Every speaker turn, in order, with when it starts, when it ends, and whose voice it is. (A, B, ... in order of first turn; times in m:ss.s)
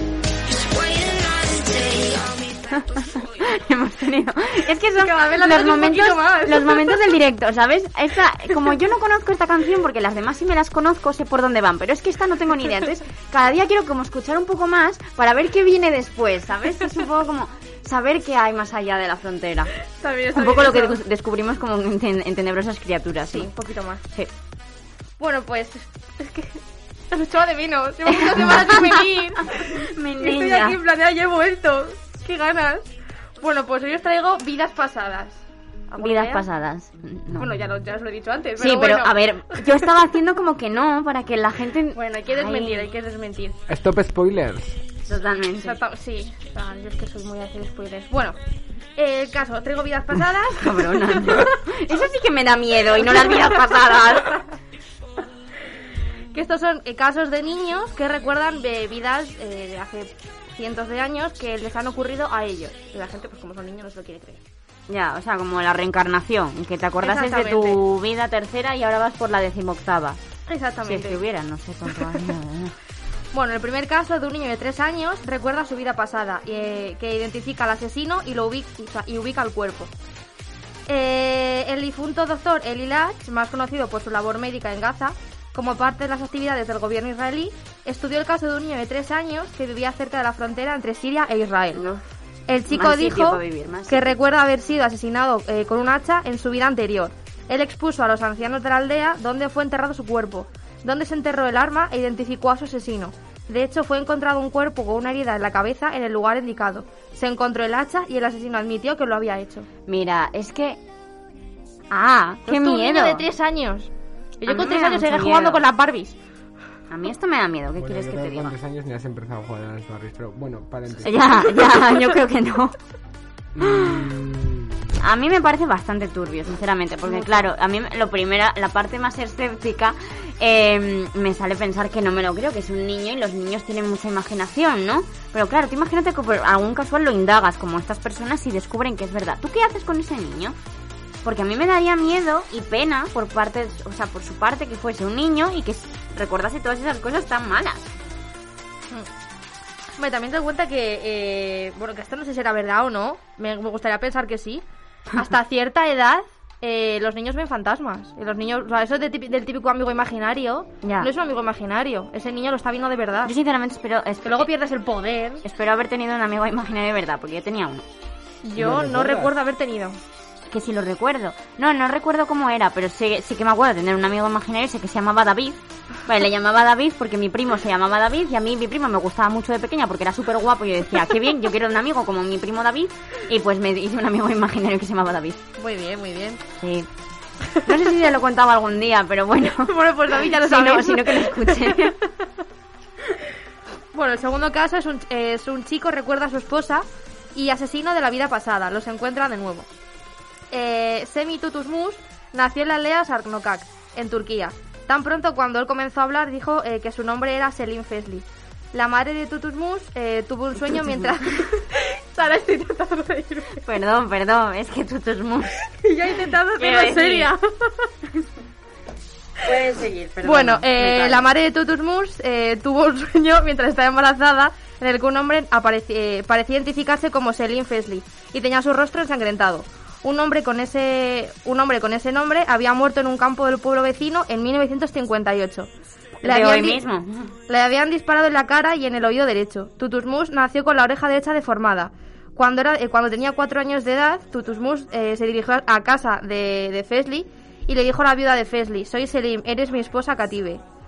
0:00.4-0:03.6 A
0:03.4-0:19.7 B
0:05.0-0:06.9 C
0:19.9-0:21.0 C
0:20.3-0:23.5 B
0:23.2-0:24.0 C
0:25.2-0:32.9 C
0:28.1-0:30.8 B
0:33.4-0:36.4 C
0:36.0-0:37.5 B
0:37.3-0:39.7 C
0:38.6-0:42.9 B
0:41.9-0:43.6 C
0:43.7-0:44.8 D
0:45.1-0:45.8 B
0:45.6-0:48.4 C
0:49.0-0:51.5 C
0:50.6-0:54.4 B
0:53.1-0:53.6 C
0:56.3-1:04.4 C
1:04.9-1:10.2 B
1:07.0-1:07.8 C
1:10.5-1:11.2 C
1:10.8-1:12.7 B
1:11.9-1:12.3 C
1:13.3-1:19.9 C
1:20.9-1:31.8 C
1:31.7-1:32.0 B
1:32.5-1:49.7 C
1:32.7-1:34.2 B
1:49.9-1:50.8 B
1:51.9-1:53.2 B
1:52.4-1:56.2 C
1:54.4-1:55.6 B
1:56.9-1:58.5 B
1:57.8-2:01.5 D
2:01.0-2:02.7 B
2:03.5-2:04.9 D
2:03.6-2:04.0 B
2:05.0-2:20.6 B
2:07.1-2:07.4 C
2:21.2-2:27.9 B
2:30.0-2:34.6 C
2:35.1-2:43.3 C
2:40.8-2:41.1 B
2:43.2-2:44.5 B
2:44.2-2:45.4 C
2:45.4-2:47.8 B
2:48.4-2:50.0 C
2:48.6-2:49.3 D
2:50.5-3:05.4 B
3:05.6-3:06.4 C
3:06.6-3:06.9 B
3:07.6-3:12.0 B
3:09.4-3:12.1 C
3:13.9-3:19.7 C
3:20.5-3:33.6 C
3:33.6-3:35.6 B
3:35.7-3:37.9 C
3:36.6-3:37.3 B
3:39.4-3:41.2 B
3:40.2-3:55.7 C
3:56.2-3:56.8 C
3:56.2-3:57.3 B
3:57.5-4:10.6 C